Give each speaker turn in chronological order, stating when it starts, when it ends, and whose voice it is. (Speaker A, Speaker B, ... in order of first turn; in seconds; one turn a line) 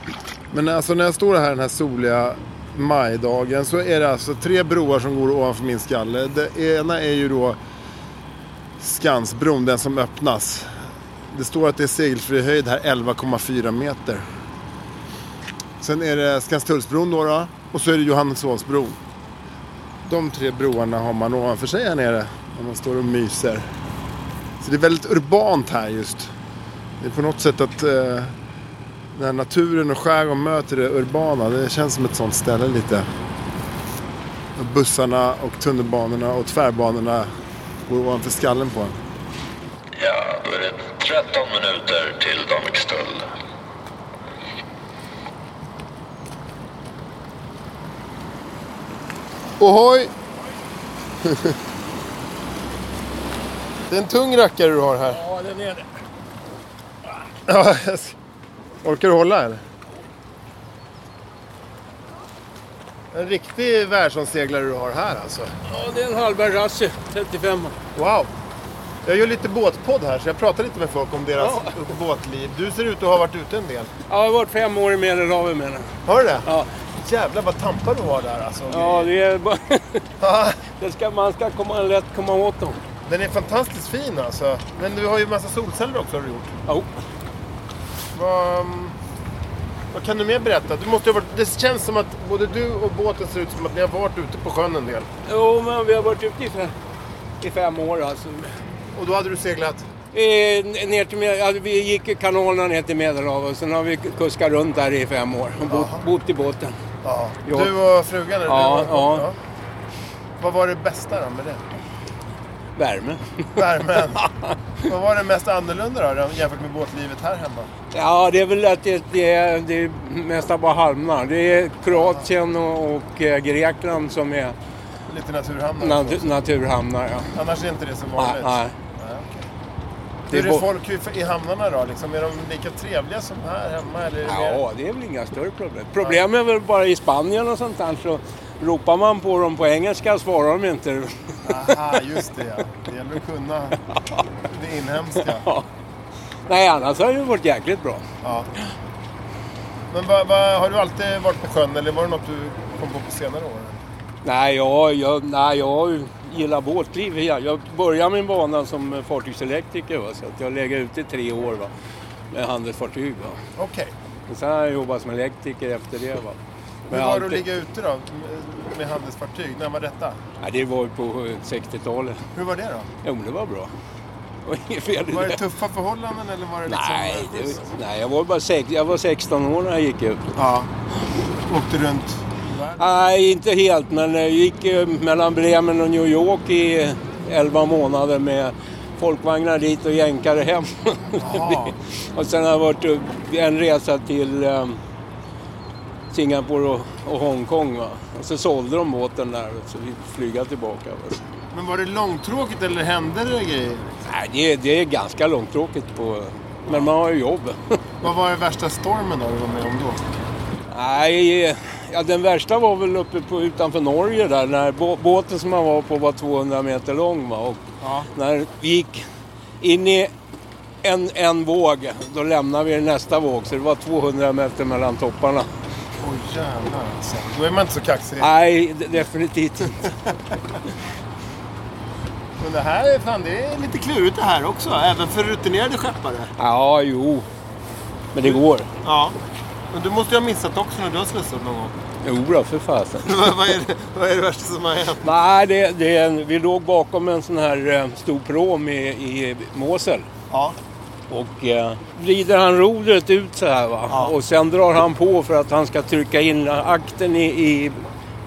Speaker A: 0.5-7.6
Speaker A: 8.8-10.7
Speaker A: 11.3-14.2
Speaker A: 15.8-19.0
Speaker A: 20.0-23.7
Speaker A: 24.6-26.3
Speaker A: 27.0-28.3
Speaker A: 29.1-33.0
Speaker A: 34.6-37.3
Speaker A: 37.9-39.0
Speaker B: 40.0-43.2
Speaker A: 49.6-50.1
Speaker A: 53.9-55.3
Speaker C: 55.3-55.8
Speaker A: 57.5-58.1
Speaker A: 58.8-59.6
Speaker A: 63.1-65.5
Speaker C: 65.7-67.7
Speaker A: 68.0-68.3
Speaker A: 69.0-73.9
Speaker C: 71.4-71.7
Speaker C: 74.1-75.9
Speaker A: 76.0-76.5
Speaker A: 77.0-79.1
Speaker C: 78.7-80.0
Speaker A: 80.2-80.5
Speaker C: 80.8-82.8
Speaker A: 83.1-86.5
Speaker A: 88.1-89.0
Speaker A: 89.9-95.1
Speaker C: 95.3-96.7
Speaker C: 97.4-98.5
Speaker A: 99.0-99.9
Speaker C: 100.1-106.8
Speaker A: 105.7-106.1
Speaker A: 107.0-109.3
Speaker C: 107.5-107.7
Speaker C: 108.5-109.3
Speaker A: 110.4-111.6
Speaker C: 112.8-113.6
Speaker A: 113.6-114.2
Speaker C: 114.2-114.5
Speaker A: 114.8-117.7
Speaker C: 117.9-124.6
Speaker A: 121.9-122.3
Speaker A: 125.1-126.3
Speaker C: 125.8-127.3
Speaker A: 127.3-129.5
Speaker C: 128.2-128.7
Speaker C: 130.3-130.7
Speaker A: 130.3-134.6
Speaker C: 134.2-141.1
Speaker A: 141.5-143.8
Speaker A: 144.5-145.5
Speaker C: 145.2-145.7
Speaker C: 146.5-148.0
Speaker A: 148.2-148.5
Speaker A: 149.9-153.8
Speaker C: 154.2-161.7
Speaker C: 162.3-163.4
Speaker A: 163.6-163.9
Speaker C: 164.3-166.4
Speaker A: 166.9-170.2
Speaker C: 166.9-167.4
Speaker C: 170.4-172.2
Speaker A: 172.3-172.9
Speaker C: 173.0-173.7
Speaker C: 174.4-175.4
Speaker A: 175.1-177.7
Speaker C: 176.7-180.2
Speaker A: 180.3-180.7
Speaker A: 181.5-182.8
Speaker C: 182.8-194.8
Speaker A: 191.2-191.7
Speaker C: 196.1-201.2
Speaker A: 201.5-204.0
Speaker C: 204.1-207.6
Speaker A: 208.0-210.0
Speaker C: 210.7-217.6
Speaker A: 217.8-218.1
Speaker C: 218.1-219.1
Speaker C: 219.6-220.1
Speaker C: 220.8-225.5
Speaker A: 226.0-228.3
Speaker C: 228.2-229.9
Speaker A: 232.4-236.3
Speaker C: 236.4-237.3
Speaker C: 238.1-238.7
Speaker A: 238.2-239.2
Speaker A: 239.7-241.8
Speaker C: 242.0-243.1
Speaker A: 243.0-245.1
Speaker C: 245.0-250.1
Speaker A: 250.3-250.6
Speaker C: 251.1-257.8
Speaker A: 253.9-254.2